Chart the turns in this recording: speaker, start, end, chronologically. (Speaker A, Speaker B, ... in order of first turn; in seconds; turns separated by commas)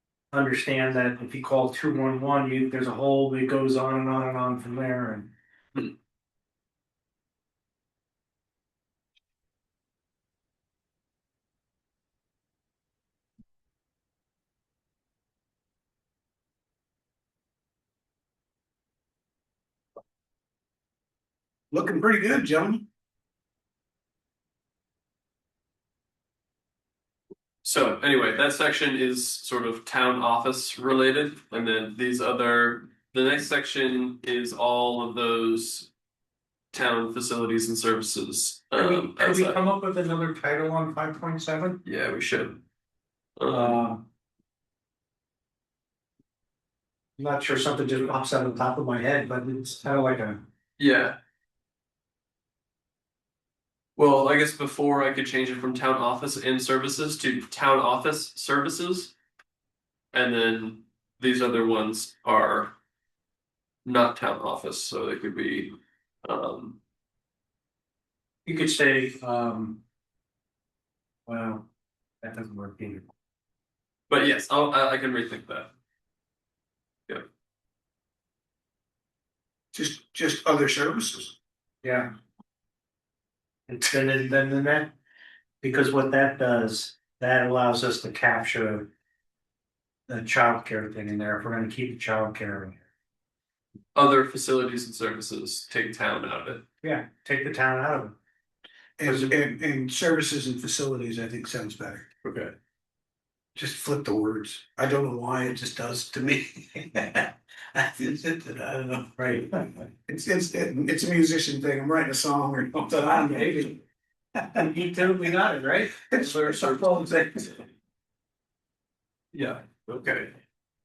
Speaker A: 0.3-5.3, Speaker B: 21.7-22.9, Speaker C: 27.6-35.9, Speaker C: 36.7-39.6, Speaker A: 38.8-41.8, Speaker C: 41.9-42.6, Speaker C: 43.4-43.8, Speaker A: 43.5-44.0, Speaker A: 47.2-50.4, Speaker C: 50.8-51.2, Speaker C: 54.0-59.1, Speaker C: 60.1-62.7, Speaker C: 63.9-66.8, Speaker A: 68.5-69.8, Speaker A: 71.3-71.7, Speaker A: 72.2-73.1, Speaker C: 74.1-75.7, Speaker B: 79.7-81.3, Speaker A: 81.8-82.1, Speaker A: 83.7-85.0, Speaker A: 85.6-88.9, Speaker A: 90.1-92.8, Speaker C: 94.0-96.6, Speaker A: 96.8-98.2, Speaker B: 99.0-102.1, Speaker A: 99.0-99.4, Speaker C: 102.2-102.6, Speaker B: 103.5-113.8, Speaker A: 109.2-109.6, Speaker B: 114.4-114.7, Speaker A: 114.6-116.0, Speaker B: 116.1-117.7, Speaker C: 116.1-116.8, Speaker C: 119.3-120.2